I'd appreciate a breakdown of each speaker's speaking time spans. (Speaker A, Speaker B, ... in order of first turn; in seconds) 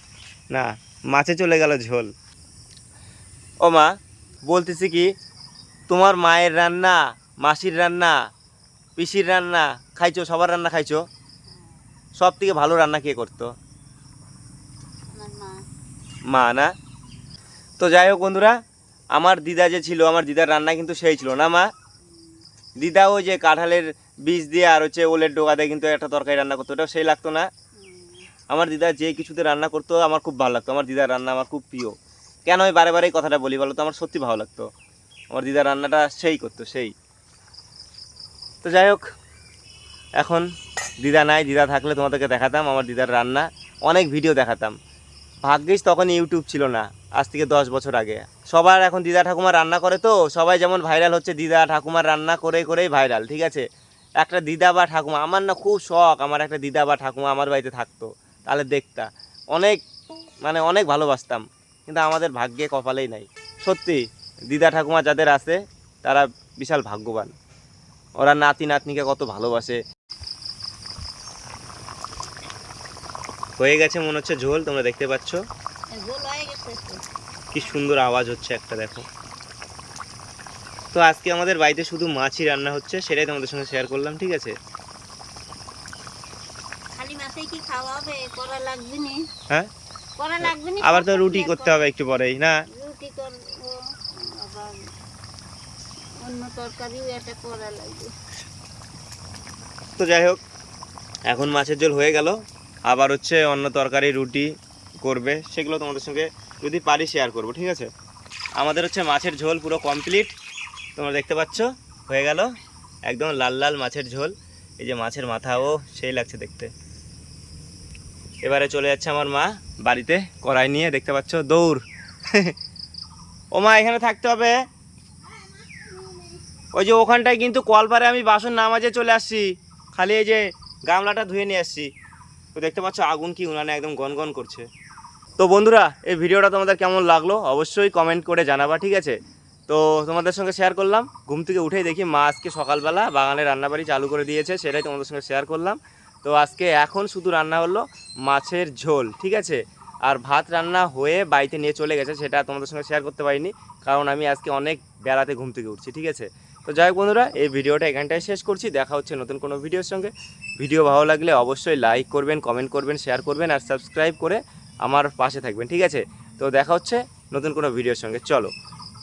Speaker A: 0.5-2.1, 3.6-5.1, 5.9-8.2, 9.0-11.0, 12.2-13.5, 16.3-16.7, 17.8-18.6, 19.1-21.7, 22.8-27.5, 28.5-34.7, 35.3-36.9, 38.6-39.0, 40.2-40.5, 41.0-44.8, 45.5-53.6, 54.2-59.8, 60.4-67.3, 68.2-69.8, 73.6-75.4, 77.5-79.1, 80.9-84.5, 90.4-92.6, 100.0-100.4, 101.3-104.5, 105.0-107.9, 108.6-110.3, 111.0-112.5, 113.1-116.7, 118.4-122.5, 123.5-124.6, 126.7-131.9, 132.6-134.7, 135.4-139.2, 139.7-168.5
Speaker B: 11.5-11.9, 15.1-15.6, 27.8-28.3, 75.9-77.0, 87.0-89.2, 90.2-91.8, 92.7-94.8, 96.2-98.1, 125.5-126.4